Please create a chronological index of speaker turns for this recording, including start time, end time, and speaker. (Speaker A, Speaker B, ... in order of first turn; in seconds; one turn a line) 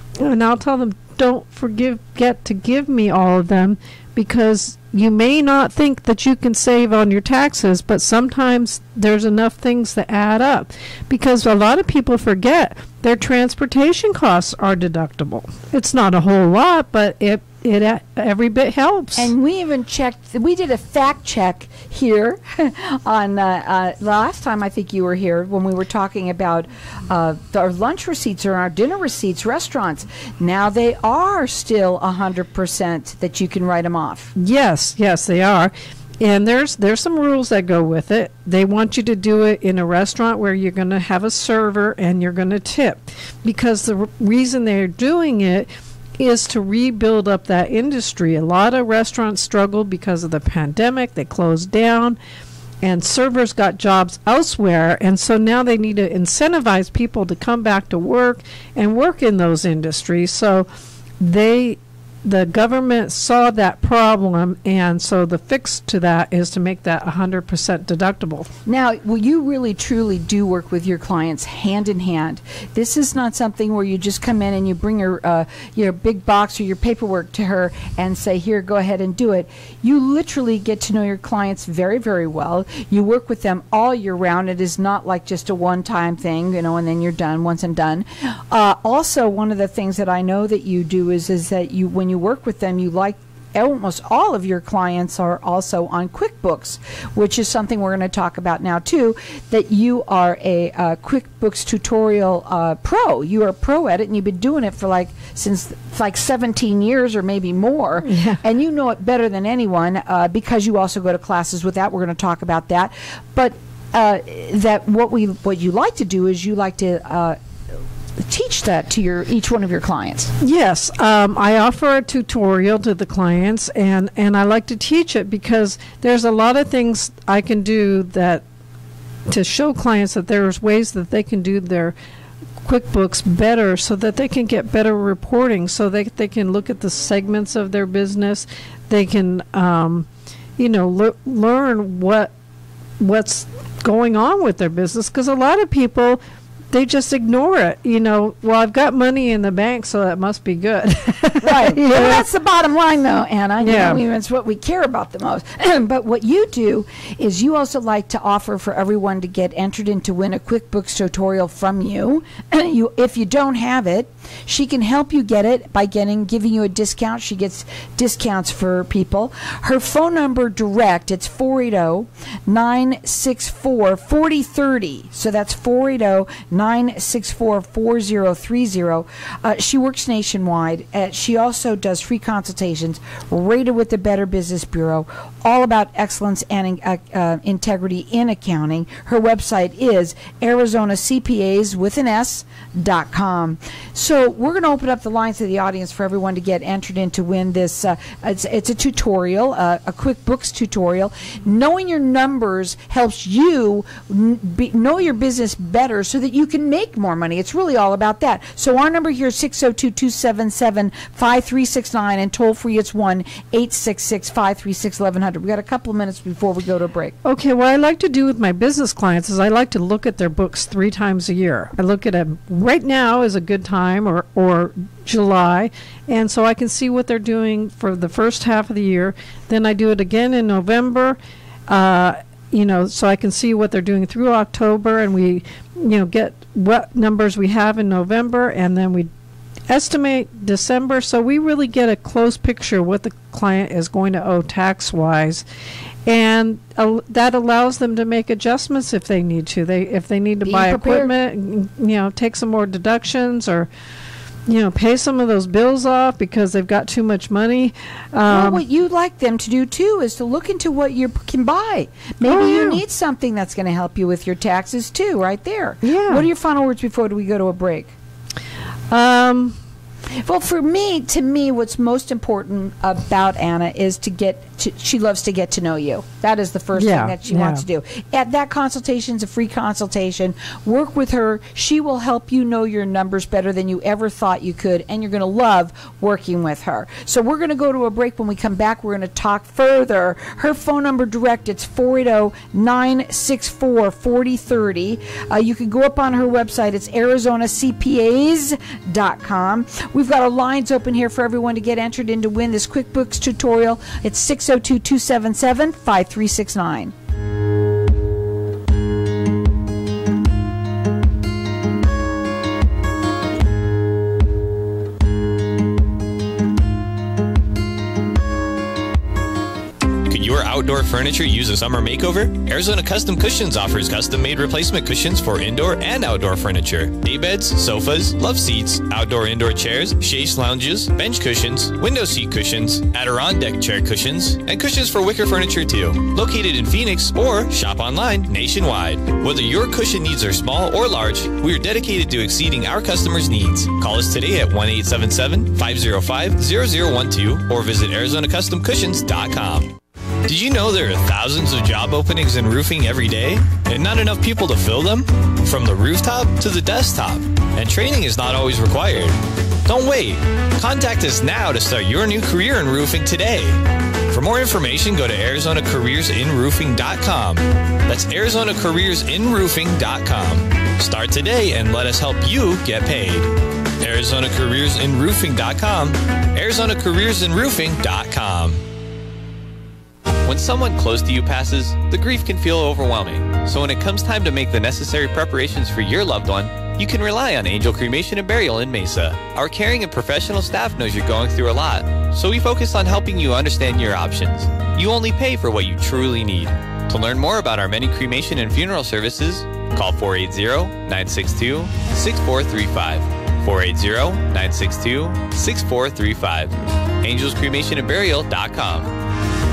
Speaker A: 0.2-19.3
Speaker B: 19.2-34.3
Speaker A: 34.4-45.7
Speaker A: 46.2-52.2
Speaker A: 52.8-60.7
Speaker A: 61.2-68.5
Speaker B: 68.7-117.4
Speaker A: 108.0-108.4
Speaker B: 118.2-120.3
Speaker A: 120.4-128.4
Speaker A: 129.3-131.9
Speaker A: 132.6-140.1
Speaker A: 140.6-142.3
Speaker A: 143.0-152.2
Speaker B: 151.4-217.1
Speaker A: 153.6-154.0
Speaker A: 217.2-231.2
Speaker A: 231.7-239.1
Speaker A: 239.7-245.4
Speaker A: 246.1-253.7
Speaker B: 250.4-251.1
Speaker A: 254.5-258.6
Speaker B: 258.3-267.9
Speaker A: 262.2-262.8
Speaker A: 265.8-266.2
Speaker A: 268.9-269.6
Speaker B: 270.2-306.9
Speaker A: 276.8-277.6
Speaker C: 320.1-349.7
Speaker C: 350.2-378.6
Speaker C: 380.2-408.9